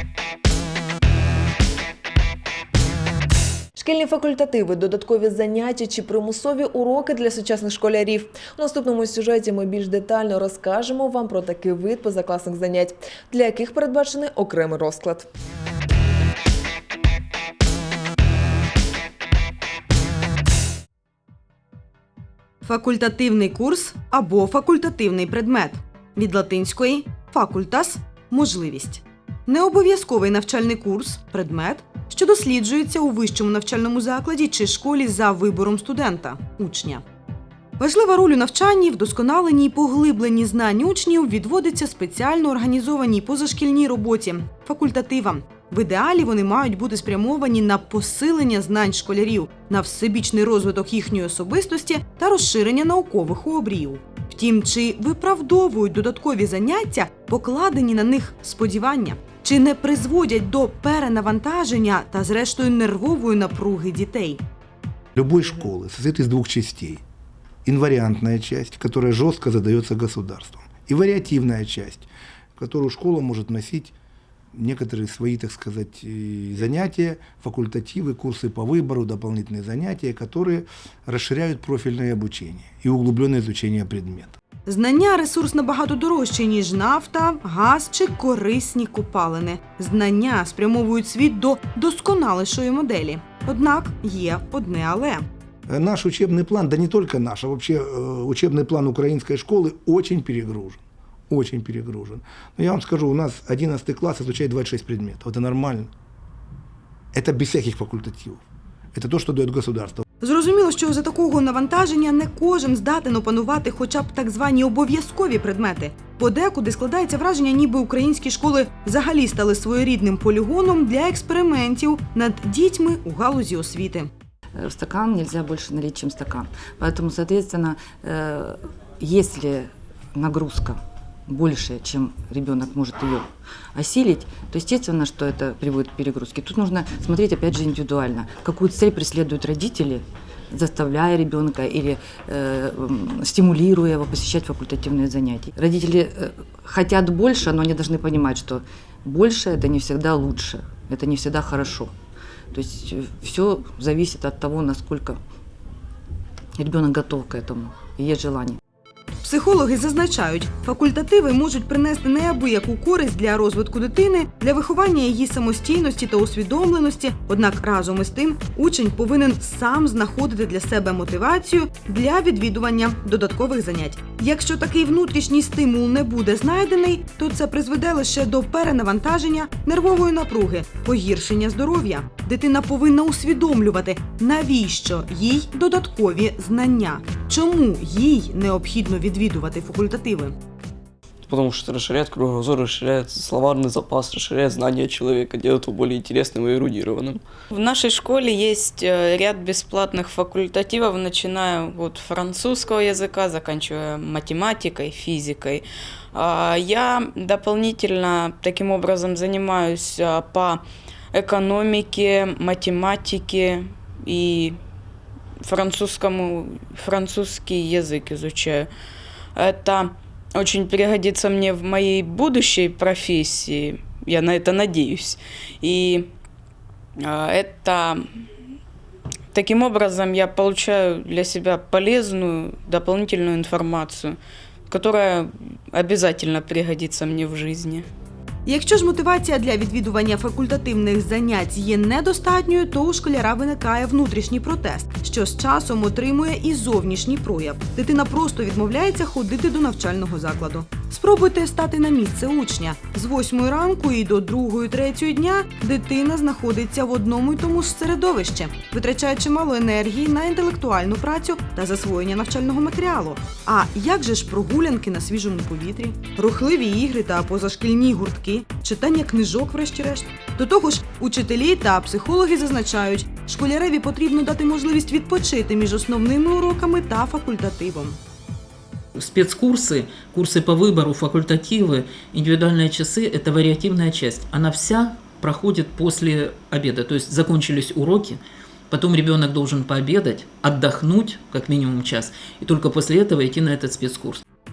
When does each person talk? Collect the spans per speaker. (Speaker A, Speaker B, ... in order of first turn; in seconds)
Speaker A: 3.8-15.3
Speaker B: 22.6-37.0, 37.8-64.4, 84.7-95.2, 110.2-124.1, 159.2-190.3, 238.5-278.0
Speaker C: 65.2-67.0, 67.7-74.0, 74.5-84.4, 95.7-105.9, 107.1-108.4, 108.9-110.0
Speaker D: 124.6-151.9, 152.5-155.2, 156.6-158.6
Speaker E: 191.3-197.2
Speaker F: 197.5-205.6, 206.1-210.6, 211.1-214.6, 215.4-218.7, 219.4-226.1, 227.0-228.1, 229.3-234.2, 234.7-237.9
Speaker G: 278.9-288.2, 288.7-294.2